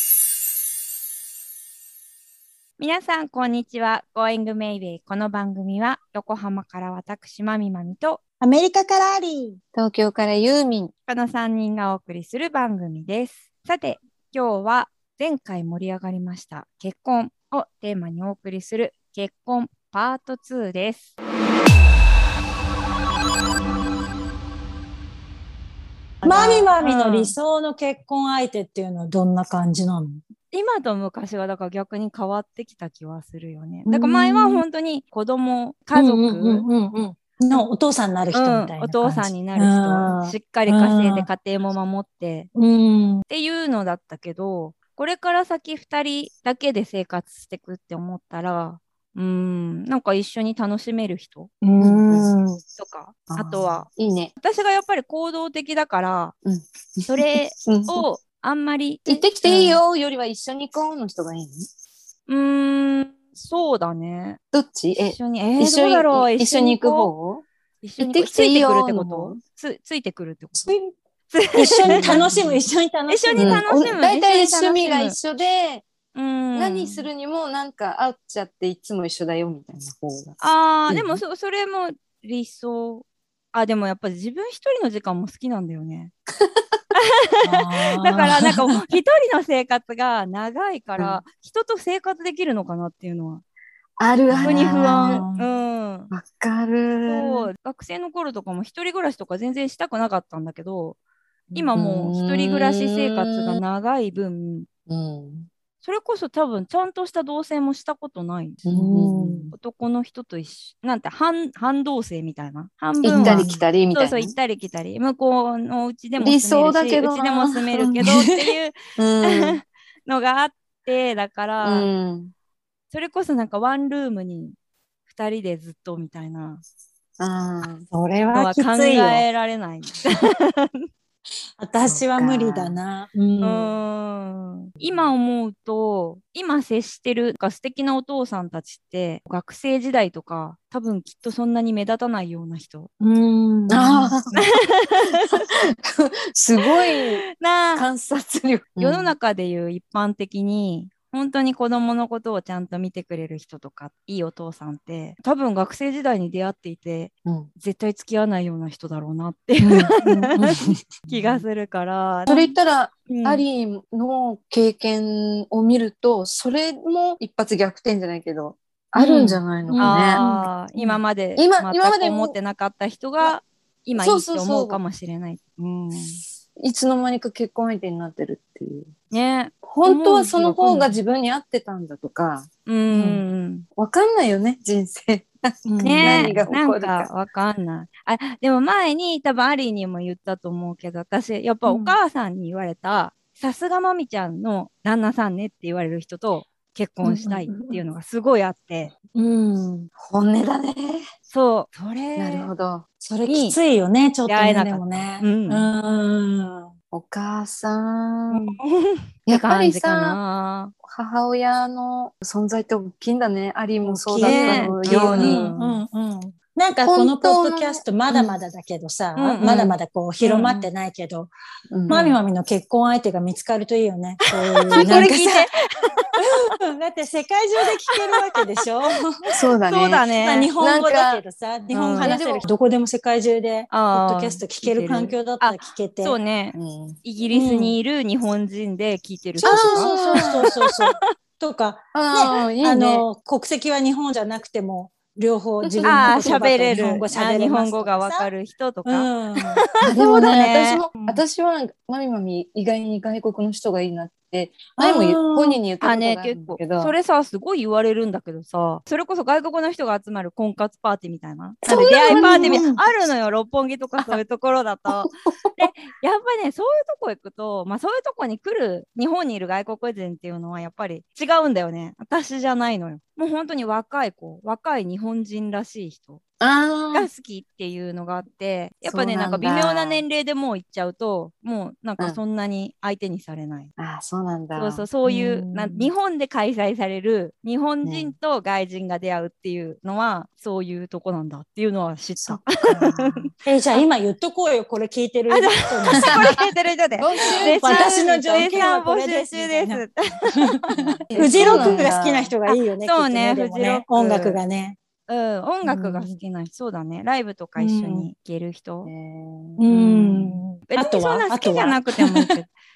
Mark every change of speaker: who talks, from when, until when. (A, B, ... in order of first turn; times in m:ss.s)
0:02.8-0:08.2 A
0:08.4-0:09.6 B
0:09.7-0:10.9 C
0:11.1-0:21.1 A
0:26.2-0:27.3 A
0:26.2-0:30.2 B
0:30.5-0:36.6 A
0:33.8-0:34.6 B
0:35.9-0:41.3 B
0:38.3-0:42.5 A
0:42.5-0:43.2 B
0:43.3-0:51.5 A
0:51.6-0:52.6 B
0:51.8-0:52.3 C
0:52.8-0:56.3 A
0:53.3-0:54.3 C
0:56.4-0:58.0 C
0:57.1-0:59.8 A
0:59.1-1:01.7 C
1:02.3-1:04.4 A
1:04.5-1:07.4 C
1:05.0-1:07.1 A
1:07.8-1:10.8 A
1:08.0-1:09.4 C
1:10.6-1:10.9 C
1:11.3-1:12.2 A
1:11.5-1:13.9 B
1:11.8-1:12.6 C
1:13.1-1:15.2 A
1:13.4-1:15.8 C
1:16.1-1:17.1 A
1:16.5-1:20.3 C
1:20.4-1:26.1 A
1:20.9-1:21.2 C
1:26.4-1:26.8 C
1:26.9-1:33.4 A
1:27.4-1:28.8 B
1:34.0-1:35.2 C
1:34.3-1:35.5 B
1:34.4-1:36.1 A
1:36.1-1:37.5 C
1:37.0-1:41.0 A
1:41.5-1:44.7 A
1:41.7-1:43.6 C
1:44.9-1:45.5 C
1:45.8-1:48.6 A
1:48.6-1:49.5 C
1:48.7-1:49.5 B
1:49.5-2:01.9 A
1:53.0-1:54.3 C
1:53.0-1:53.6 B
1:56.2-1:58.0 C
1:58.0-1:58.3 B
1:59.0-1:59.6 C
2:01.6-2:02.3 C
2:02.9-2:04.6 A
2:05.1-2:06.6 A
2:07.2-2:07.8 C
2:07.9-2:09.2 B
2:08.3-2:10.9 A
2:11.6-2:13.7 B
2:11.8-2:12.8 C
2:13.4-2:22.9 A
2:14.8-2:15.1 C
2:23.0-2:24.2 B
2:23.7-2:24.4 C
2:24.3-2:25.4 A
2:25.2-2:27.2 C
2:26.6-2:27.9 A
2:27.7-2:29.1 C
2:28.8-2:40.4 A
2:37.2-2:37.5 C
2:39.7-2:40.5 C
2:39.9-2:40.8 B
2:41.1-2:41.4 C
2:41.1-2:42.4 A
2:42.3-2:50.2 C
2:43.1-2:43.4 A
2:49.0-2:56.2 A
2:49.7-2:51.0 B
2:51.4-2:52.4 C
2:54.0-2:54.8 C
2:56.5-2:58.9 C
2:59.1-3:00.9 A
2:59.6-3:02.5 C
3:02.6-3:03.6 A
3:02.9-3:03.2 B
3:03.8-3:07.1 C
3:05.6-3:06.5 B
3:05.8-3:18.9 A
3:11.6-3:12.0 B
3:17.0-3:17.8 B
3:19.1-3:19.9 B
3:20.0-3:21.0 C
3:21.3-3:22.5 A
3:22.2-3:22.8 C
3:23.0-3:26.7 B
3:23.2-3:23.6 A
3:24.2-3:25.7 A
3:26.9-3:28.6 C
3:28.3-3:30.7 A
3:29.3-3:30.2 C
3:30.8-3:35.4 C
3:33.8-3:41.3 B
3:34.2-3:35.8 A
3:36.8-3:38.4 C
3:39.2-3:40.7 A
3:41.7-3:42.2 C
3:41.9-3:45.5 B
3:44.7-3:46.0 A
3:44.8-3:45.2 C
3:46.2-3:49.2 B
3:49.3-3:50.0 C
3:49.6-3:50.5 A
3:50.2-3:56.2 B
3:50.6-3:51.2 C
3:51.7-3:52.2 A
3:52.0-3:52.5 C
3:53.7-4:01.1 A
3:56.5-3:57.0 C
3:57.3-3:57.8 B
3:59.4-4:00.4 C
3:59.4-4:08.3 B
4:01.9-4:03.0 C
4:05.6-4:06.1 C
4:05.8-4:10.8 A
4:06.7-4:07.0 C
4:08.8-4:09.6 B
4:09.8-4:16.9 C
4:11.0-4:11.2 B
4:14.8-4:15.6 B
4:15.8-4:36.2 A
4:21.7-4:22.6 C
4:21.7-4:22.8 B
4:24.9-4:25.7 C
4:36.4-4:37.1 C
4:36.9-4:43.7 A
4:38.8-4:40.0 C
4:43.8-4:44.9 C
4:44.6-4:53.8 A
4:45.0-4:45.9 B
4:47.8-4:48.1 C
4:52.2-4:53.3 C
4:53.4-4:56.3 B
4:55.3-5:00.6 A
4:56.0-4:56.4 C
4:56.9-4:57.9 C
4:57.6-5:04.8 B
5:00.8-5:02.3 C
5:01.1-5:04.4 A
5:05.1-5:08.9 A
5:05.6-5:06.2 B
5:07.6-5:08.1 B
5:08.8-5:09.6 C
5:09.6-5:12.3 B
5:09.7-5:12.5 A